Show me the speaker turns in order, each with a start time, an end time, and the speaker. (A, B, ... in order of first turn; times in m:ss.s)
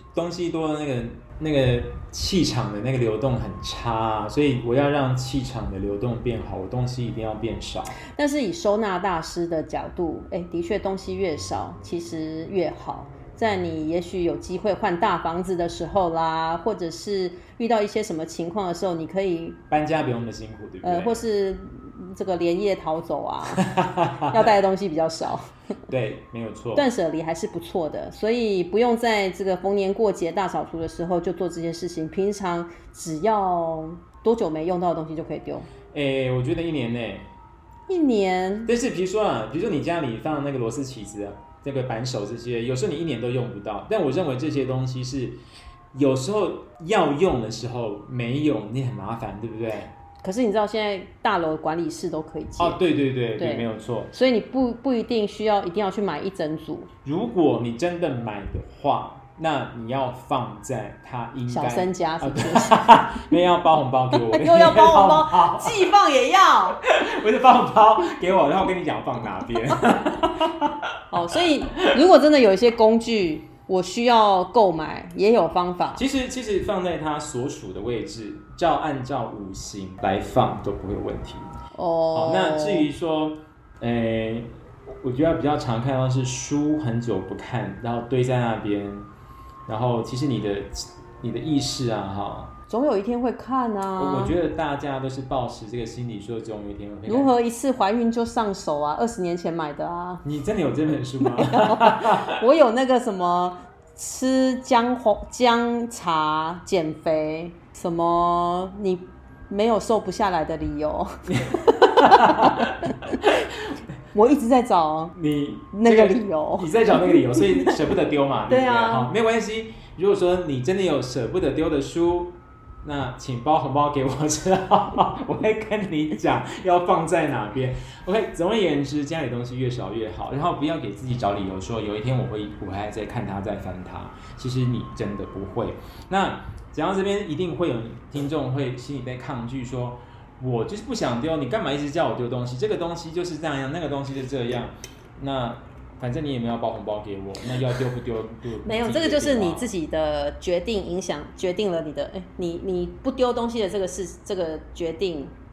0:00.1-0:08.0 A
0:08.1-0:19.6 B
0:19.7-0:21.2 A
0:20.8-0:25.5 B
0:23.5-0:24.4 A
0:25.9-0:26.9 A
0:26.8-0:35.7 B
0:35.9-0:37.3 A
0:37.9-0:38.7 B
0:38.7-0:45.4 A
0:45.9-0:50.0 A
0:50.2-0:52.8 B
0:52.6-0:54.1 A
0:53.4-0:56.9 B
0:57.0-1:05.9 A
1:01.5-1:02.9 B
1:04.1-1:06.8 B
1:06.8-1:10.9 A
1:11.1-1:16.0 B
1:16.0-1:21.5 A
1:21.8-1:22.9 B
1:22.1-1:29.1 A
1:29.7-1:32.5 A
1:32.7-1:34.4 B
1:34.0-1:37.3 A
1:37.1-1:40.2 B
1:40.2-1:42.4 A
1:41.4-1:52.9 B
1:51.5-1:52.7 A
1:54.1-1:55.2 B
1:55.1-2:29.7 A
1:55.7-1:57.8 B
1:58.5-1:59.1 B
2:28.6-2:35.3 B